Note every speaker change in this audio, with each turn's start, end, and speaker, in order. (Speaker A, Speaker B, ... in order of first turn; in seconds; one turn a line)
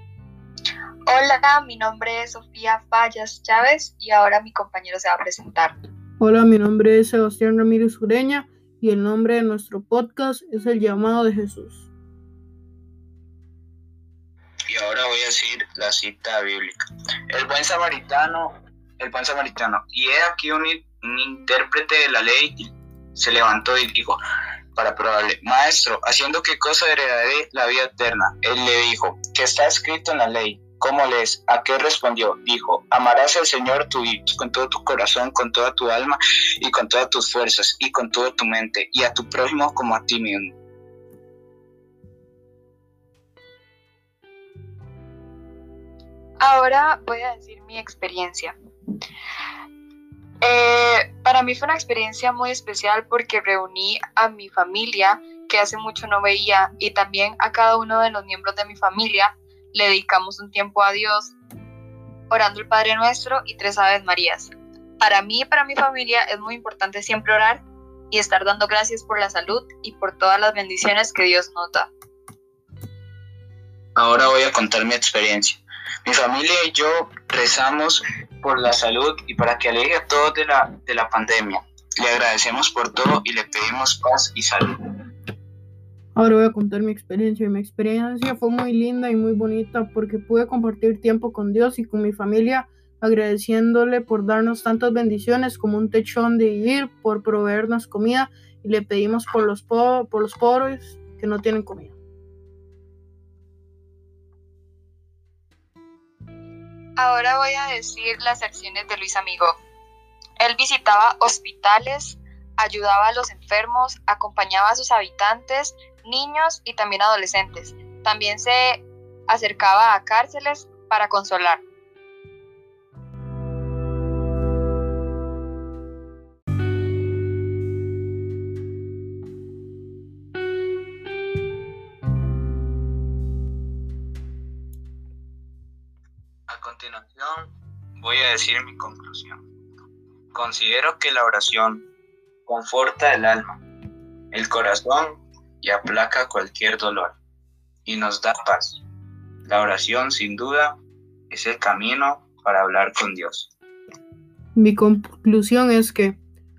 Speaker A: 1.1-5.7
Speaker B: 6.2-11.9
Speaker C: 14.7-24.2
Speaker C: 24.7-40.5
Speaker A: 46.4-48.5
Speaker A: 50.4-61.3
Speaker A: 62.3-71.9
Speaker C: 74.0-84.8
Speaker B: 86.1-102.0
Speaker A: 107.0-109.6
Speaker A: 110.4-121.6
Speaker C: 136.5-139.4
Speaker C: 140.3-141.8
Speaker C: 142.5-143.6
Speaker C: 144.3-147.2
Speaker C: 147.8-148.8
Speaker C: 149.4-150.8
Speaker C: 151.3-153.5
Speaker B: 154.5-156.2